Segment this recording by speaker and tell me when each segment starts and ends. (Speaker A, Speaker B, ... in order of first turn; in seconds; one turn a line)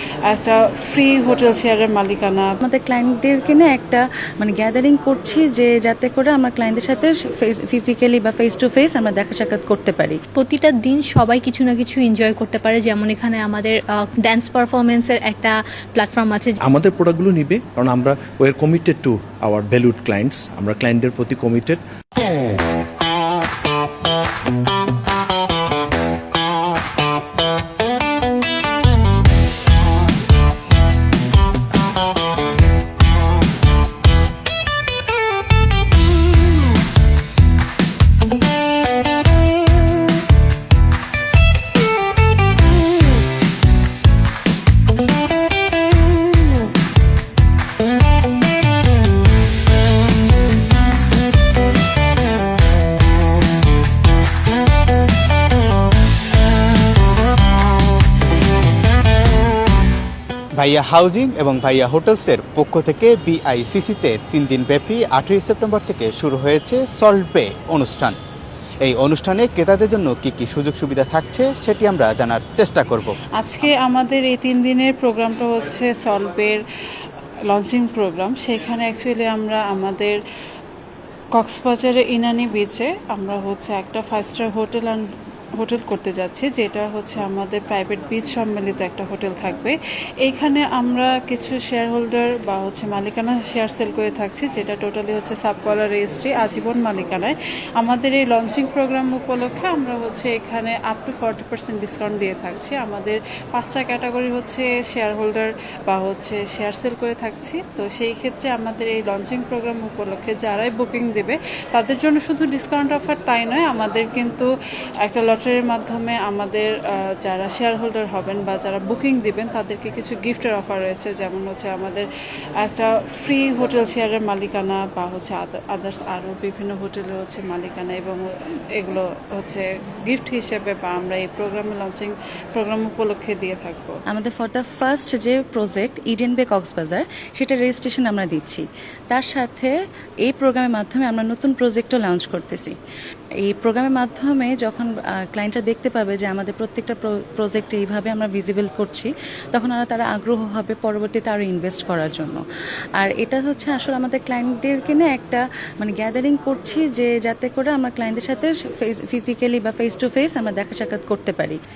Speaker A: 0.3-2.5
Speaker B: 2.6-10.2
Speaker C: 10.3-16.6
Speaker D: 16.6-21.8
Speaker E: 60.6-68.2
Speaker E: 68.8-73.1
Speaker A: 73.4-76.6
Speaker A: 77.5-80.2
Speaker A: 81.3-114.5
Speaker A: 115.0-134.0
Speaker B: 134.1-139.7
Speaker B: 140.2-142.7
Speaker B: 143.4-152.4
Speaker B: 153.0-161.6